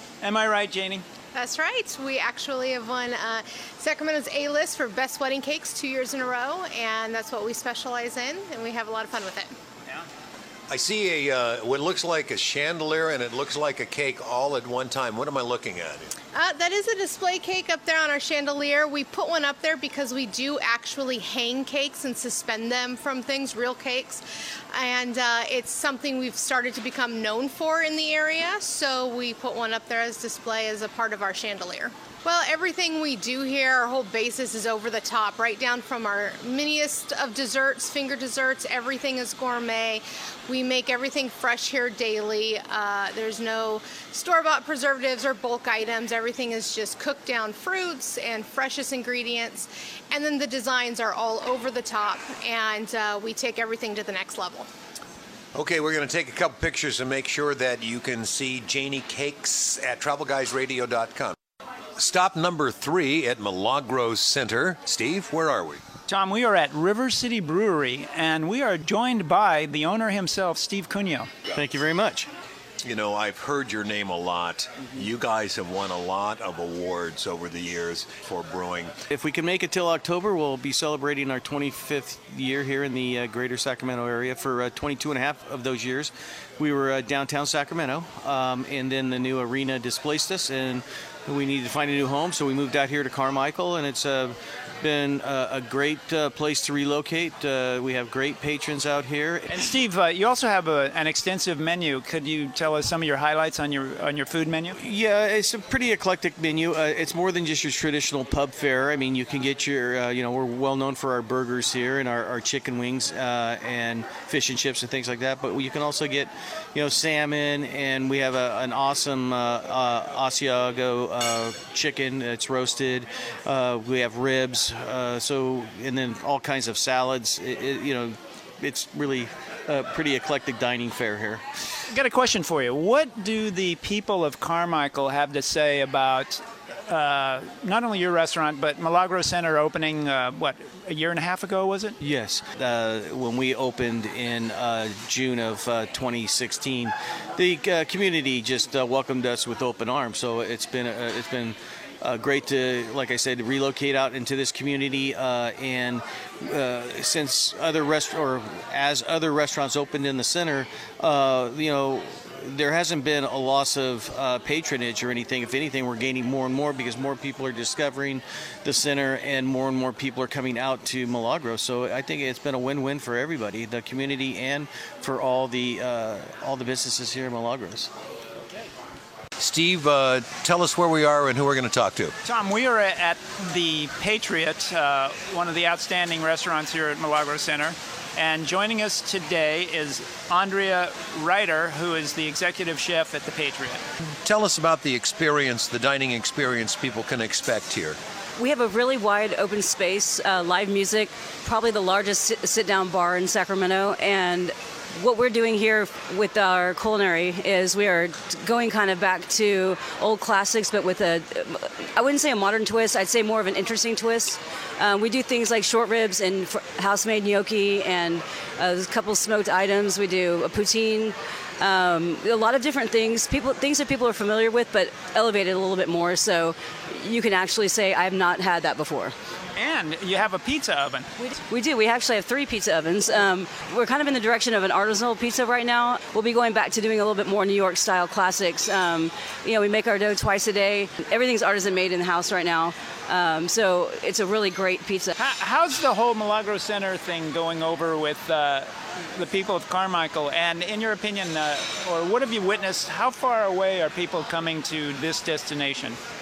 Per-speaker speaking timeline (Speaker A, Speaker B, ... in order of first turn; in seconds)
Speaker A: 0.2-1.1, 66.1-71.3, 99.5-104.8, 131.9-141.9, 182.2-193.8, 229.6-231.1, 245.2-256.0
Speaker B: 1.4-9.5, 16.3-54.7
Speaker C: 10.7-16.1, 55.5-61.4, 62.0-65.8, 72.8-78.9, 179.4-182.1, 194.2-198.0
Speaker D: 71.5-72.3, 79.1-99.6, 104.8-131.4, 142.0-177.9
Speaker E: 198.4-229.1, 231.5-245.1